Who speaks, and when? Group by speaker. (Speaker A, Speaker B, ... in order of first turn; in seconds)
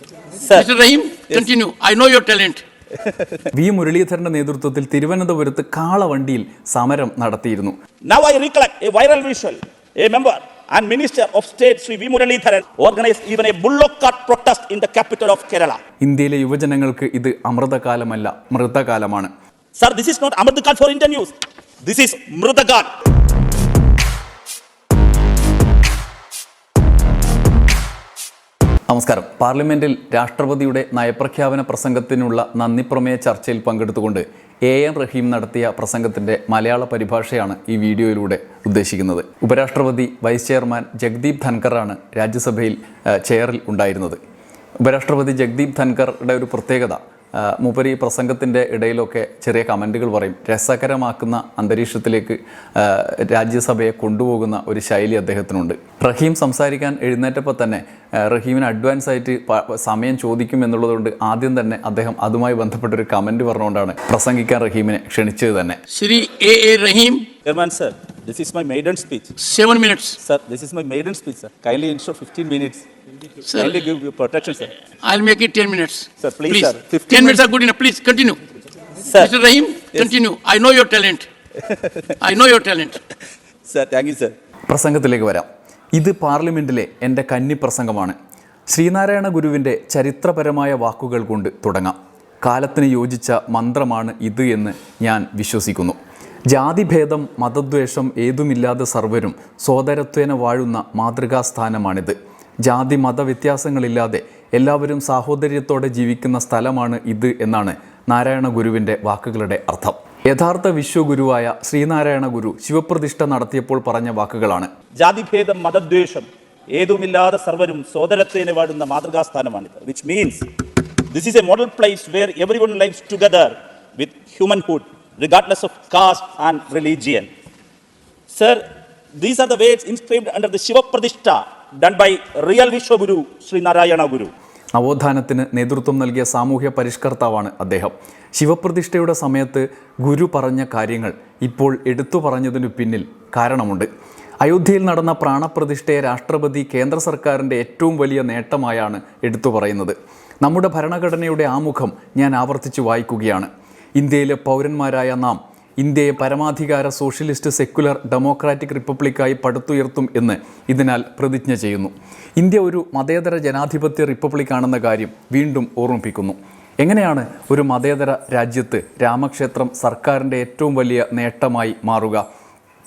Speaker A: 0.4-0.7, 3.0-3.5, 8.1-15.8, 19.8-22.9, 67.4-69.4, 70.2-72.8, 73.5-74.7, 76.2-77.5, 79.0-79.3, 81.6-82.1, 83.7-84.3, 115.0-120.5, 121.1-127.3, 128.3-128.6, 129.2-134.3
Speaker B: 0.5-2.6, 65.9-67.3, 69.4-70.2, 73.5-73.8, 75.0-78.4, 79.1-81.3, 82.2-83.0
Speaker C: 3.5-7.8, 16.0-19.3, 28.9-44.2, 44.8-65.8, 84.7-88.2, 88.7-114.7, 134.7-143.9, 144.4-172.2